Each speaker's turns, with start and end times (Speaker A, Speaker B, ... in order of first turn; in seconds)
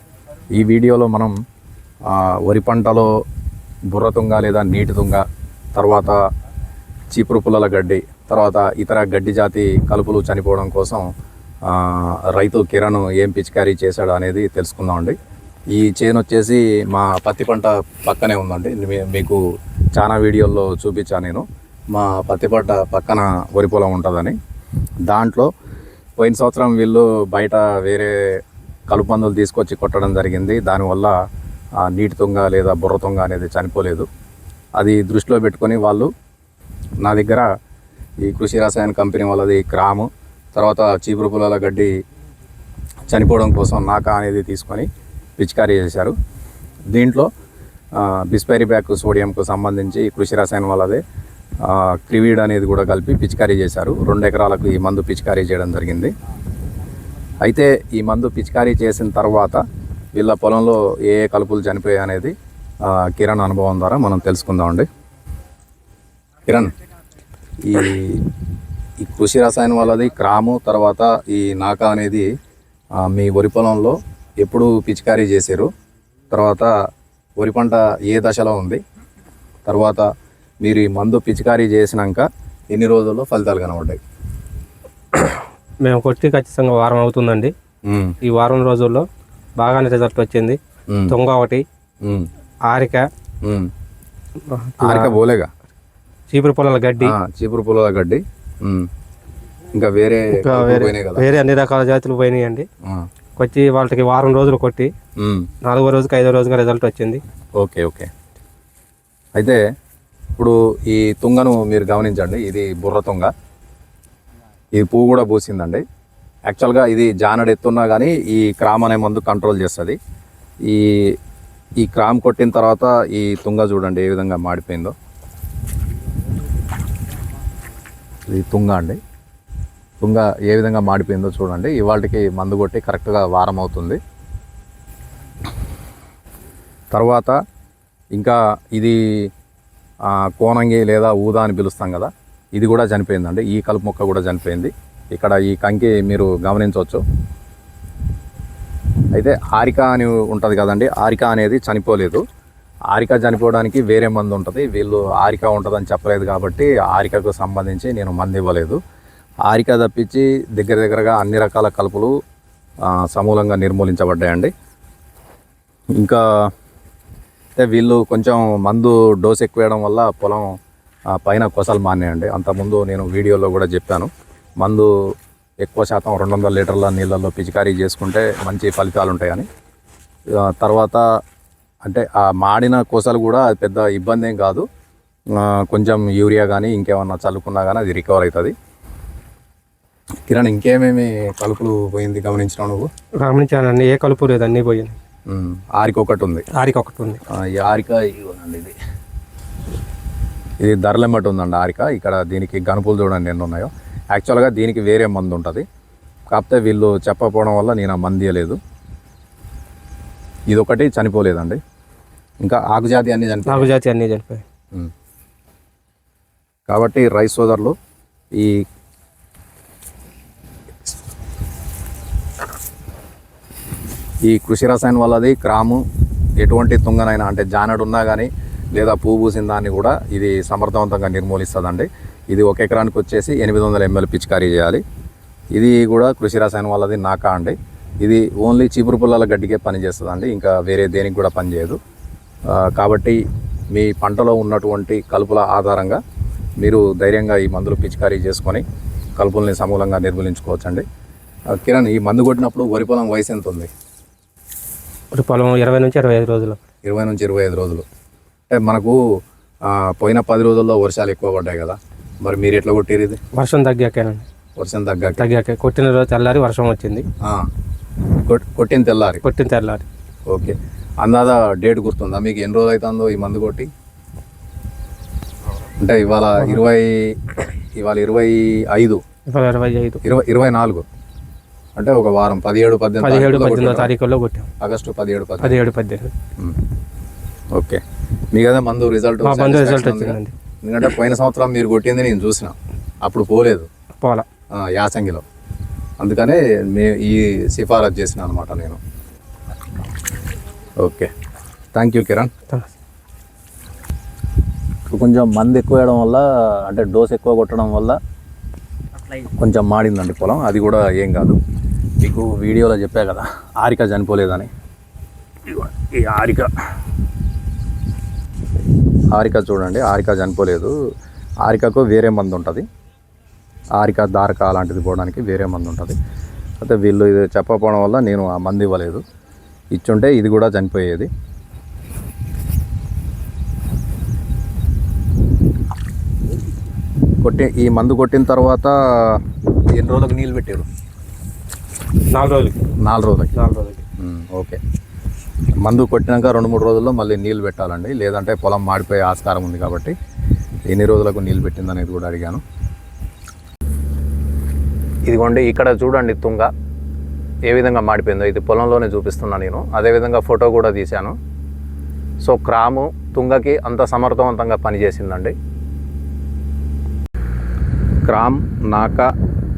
Speaker A: 0.5-1.3, 2.1-3.2, 3.9-6.2, 7.1-11.1, 11.6-15.2, 15.7-19.4, 19.9-24.3, 25.1-25.5, 26.2-31.1, 31.8-34.1, 34.8-36.1, 37.0-37.5, 38.2-41.9, 43.1-46.1, 46.9-47.3, 48.0-51.0, 51.6-56.1, 57.4-59.6, 60.1-64.8, 66.5-66.7, 67.6-68.2, 69.0-72.3, 73.0-75.7, 76.3-76.7, 77.4-78.8, 79.7-80.0, 80.6-84.0, 87.8-88.2, 90.9-91.1, 92.0-92.3, 93.4-93.7, 94.8-95.5, 97.0-98.9, 99.7-101.2, 105.2-105.5, 107.6-108.1, 109.3-109.6, 110.4-113.3, 114.7-115.8, 116.5-120.0, 120.7-121.2, 121.8-124.9, 128.3-129.0, 130.0-134.0, 136.9-137.4, 138.1-139.3, 140.0-147.0, 149.1-152.2, 152.9-158.8, 159.4-162.1, 162.8-164.5, 165.9-166.5, 167.6-170.6, 171.1-174.9, 175.6-179.5, 180.3-181.0, 181.8-184.7, 185.3-188.5, 190.3-192.9, 195.3-196.4, 197.3-198.7, 200.6-205.6, 206.3-208.6, 210.5-211.6, 212.4-213.7, 216.7-217.7, 218.3-218.6, 224.2-225.8, 226.4-234.8, 235.5-241.8, 242.5-243.2, 243.7-246.0, 246.6-248.6, 249.2-250.8, 251.5-253.7, 256.8-257.8, 258.5-259.0, 259.6-263.2, 264.6-265.2, 267.2-267.5, 268.1-269.2, 270.3-273.7, 275.8-279.0, 280.0-280.9, 281.8-283.9, 284.6-285.6, 287.5-293.7, 294.5-295.2, 296.0-298.8, 300.8-301.1, 301.7-302.3, 304.9-308.0, 309.2-311.4, 312.0-314.5, 315.5-316.5, 319.1-320.7, 321.4-322.6, 323.8-325.9, 326.6-329.0, 329.7-331.1, 337.2-340.7, 342.8-343.3, 344.0-344.6, 345.6-349.9, 350.7-352.4, 355.1-356.5, 357.5-361.2, 362.2-365.3, 368.0-369.1
Speaker B: 85.1-87.5, 88.2-89.1, 89.6-91.6, 92.7-93.1, 94.5-95.1, 96.3-97.1, 100.4-102.7, 103.4-104.9, 105.6-107.2, 193.2-194.9, 196.5-197.2, 213.5-214.4, 255.1-256.6, 263.3-264.2, 265.2-267.0, 269.2-269.9, 279.3-280.0, 283.0-284.5, 285.4-286.1, 289.2-290.3, 294.0-294.2, 342.1-342.6, 343.3-343.8